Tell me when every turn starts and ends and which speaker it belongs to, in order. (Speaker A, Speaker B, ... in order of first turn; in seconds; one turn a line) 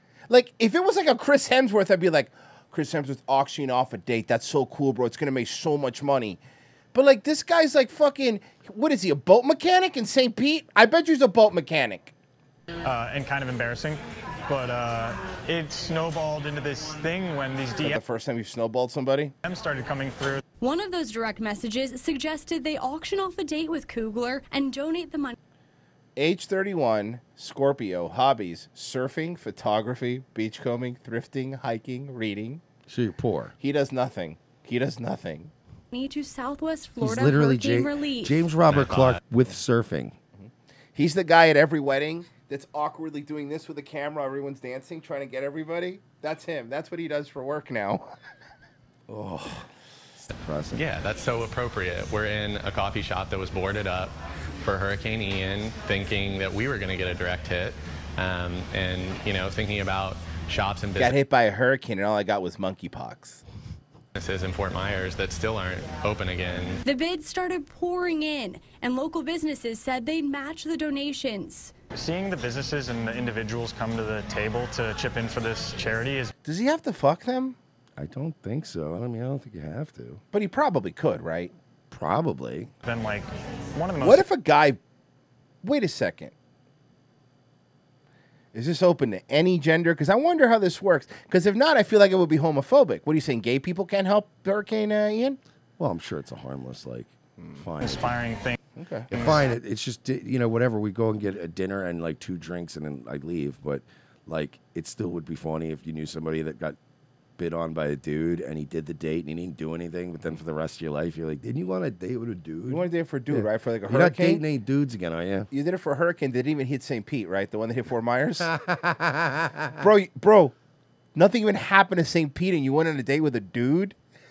Speaker A: 0.3-6.4
Speaker A: 6.9-12.1
Speaker B: 12.8-18.0
Speaker A: 17.8-19.3
Speaker B: 19.4-20.4
Speaker C: 20.6-25.3
Speaker A: 26.1-32.6
Speaker D: 32.9-33.5
Speaker A: 33.6-35.5
Speaker C: 35.9-38.3
Speaker D: 37.0-40.1
Speaker E: 37.2-37.6
Speaker E: 38.6-39.2
Speaker A: 40.4-48.1
Speaker D: 49.1-49.7
Speaker D: 50.3-50.8
Speaker E: 50.7-61.1
Speaker A: 61.0-63.4
Speaker E: 64.2-67.0
Speaker C: 67.0-71.7
Speaker B: 71.9-76.3
Speaker A: 76.4-77.5
Speaker D: 78.0-80.2
Speaker A: 80.3-81.5
Speaker D: 81.9-82.7
Speaker B: 82.8-84.2
Speaker A: 84.0-84.8
Speaker A: 85.6-86.3
Speaker A: 88.5-95.4
Speaker D: 95.8-98.2
Speaker A: 97.4-97.6
Speaker B: 97.8-98.5
Speaker A: 98.8-99.1
Speaker D: 99.1-106.8
Speaker B: 99.1-99.4
Speaker D: 107.4-115.5
Speaker A: 112.7-114.4
Speaker A: 115.5-118.5
Speaker D: 118.4-119.8
Speaker A: 119.8-120.5
Speaker A: 121.1-123.9